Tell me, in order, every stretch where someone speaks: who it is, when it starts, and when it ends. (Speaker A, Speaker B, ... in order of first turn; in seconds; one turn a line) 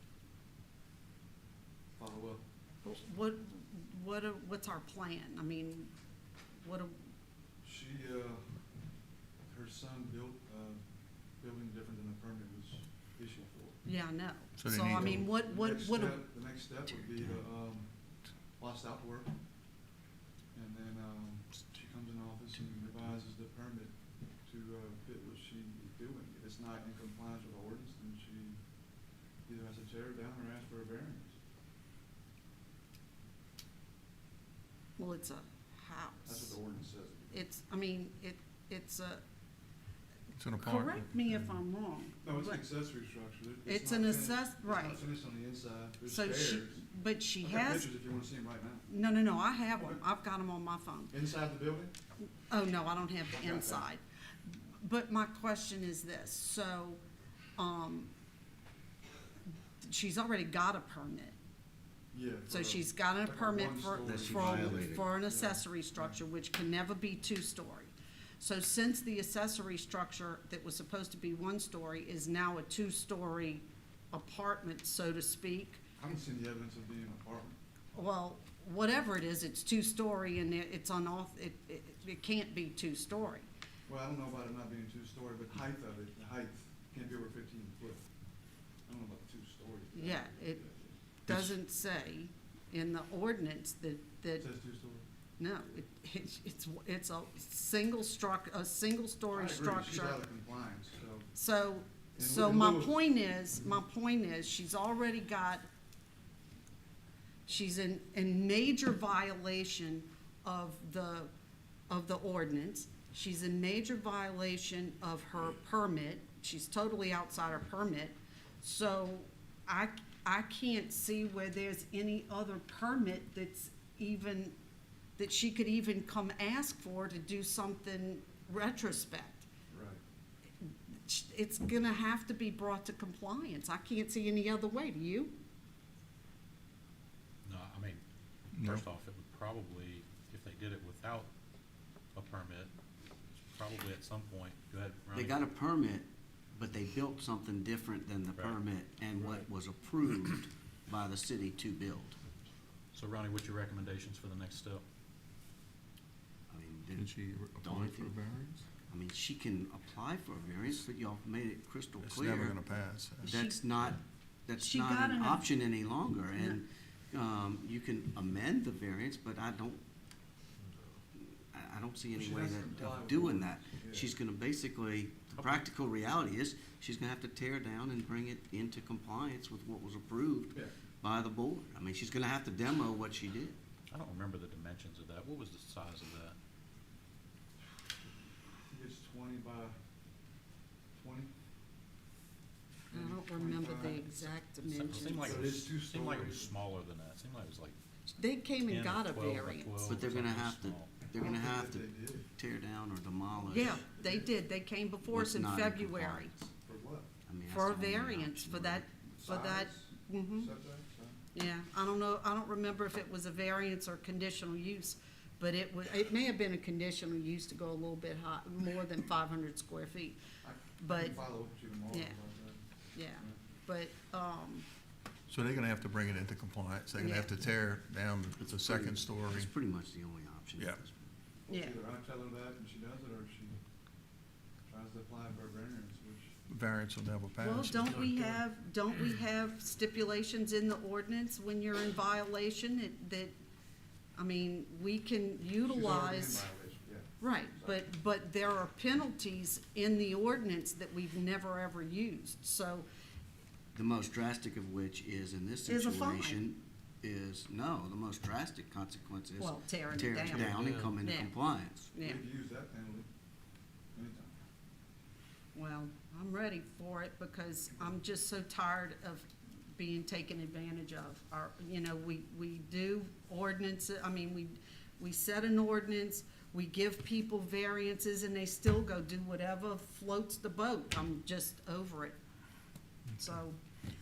Speaker A: 1.9-2.4
Speaker B: 2.8-5.9
Speaker B: 6.6-7.0
Speaker A: 7.6-8.7
Speaker A: 9.5-10.8
Speaker A: 11.4-13.8
Speaker B: 13.8-16.2
Speaker C: 14.6-15.2
Speaker A: 14.9-19.4
Speaker A: 20.5-28.6
Speaker A: 29.5-31.4
Speaker B: 35.0-36.6
Speaker A: 36.2-37.4
Speaker B: 37.3-39.2
Speaker C: 40.3-41.1
Speaker B: 40.6-42.6
Speaker A: 42.2-46.9
Speaker B: 43.7-45.0
Speaker B: 46.1-47.9
Speaker A: 47.4-48.9
Speaker B: 48.9-51.1
Speaker A: 49.8-50.0
Speaker A: 51.1-51.9
Speaker B: 52.5-57.0
Speaker A: 53.3-53.9
Speaker B: 57.6-58.1
Speaker B: 59.8-61.4
Speaker A: 62.1-66.2
Speaker B: 62.5-75.8
Speaker D: 64.0-65.1
Speaker A: 76.0-77.6
Speaker B: 77.9-83.5
Speaker A: 83.9-88.1
Speaker A: 88.9-91.4
Speaker B: 89.9-90.6
Speaker B: 91.3-94.5
Speaker A: 94.4-95.0
Speaker B: 95.4-100.2
Speaker A: 99.3-101.3
Speaker B: 101.3-105.7
Speaker A: 102.2-103.0
Speaker B: 107.5-111.3
Speaker B: 111.9-124.5
Speaker B: 125.2-129.5
Speaker A: 129.7-130.0
Speaker B: 130.6-135.3
Speaker E: 137.4-138.0
Speaker C: 138.5-138.9
Speaker E: 138.6-141.3
Speaker E: 142.1-142.7
Speaker E: 143.4-145.4
Speaker D: 145.1-152.2
Speaker E: 148.3-148.6
Speaker E: 152.9-154.8
Speaker D: 156.5-157.1
Speaker C: 156.9-158.7
Speaker D: 157.6-158.2
Speaker D: 158.9-162.6
Speaker C: 162.0-163.4
Speaker B: 163.2-163.6
Speaker D: 163.3-169.8
Speaker B: 164.6-165.5
Speaker B: 166.3-166.6
Speaker D: 171.2-183.6
Speaker A: 172.1-174.1
Speaker E: 175.3-175.7
Speaker E: 183.9-186.4
Speaker A: 188.7-189.8
Speaker A: 190.9-191.3
Speaker A: 192.9-194.3
Speaker B: 192.9-195.5
Speaker E: 194.6-197.8
Speaker A: 195.1-196.5
Speaker B: 198.2-200.0
Speaker E: 198.7-201.1
Speaker D: 199.8-203.8
Speaker A: 201.2-202.3
Speaker A: 203.3-204.3
Speaker B: 203.5-206.4
Speaker D: 205.1-206.4
Speaker A: 206.6-207.1
Speaker D: 207.3-208.9
Speaker B: 207.5-210.5
Speaker A: 209.2-211.2
Speaker B: 211.3-220.2
Speaker A: 220.4-222.6
Speaker B: 220.8-221.2
Speaker B: 221.9-222.2
Speaker B: 222.9-224.7
Speaker C: 225.3-229.5
Speaker B: 227.0-227.3
Speaker D: 228.6-231.1
Speaker C: 230.6-230.8
Speaker A: 231.5-233.6
Speaker B: 231.5-231.8
Speaker A: 234.7-236.4
Speaker C: 236.5-238.4
Speaker B: 237.4-243.3
Speaker B: 244.2-246.4
Speaker A: 245.7-247.7
Speaker B: 247.2-252.9
Speaker D: 253.7-261.9
Speaker B: 255.7-256.4
Speaker B: 259.4-262.2
Speaker E: 260.3-261.0
Speaker A: 262.0-263.1
Speaker A: 263.9-264.3
Speaker B: 265.5-282.2
Speaker B: 283.2-283.6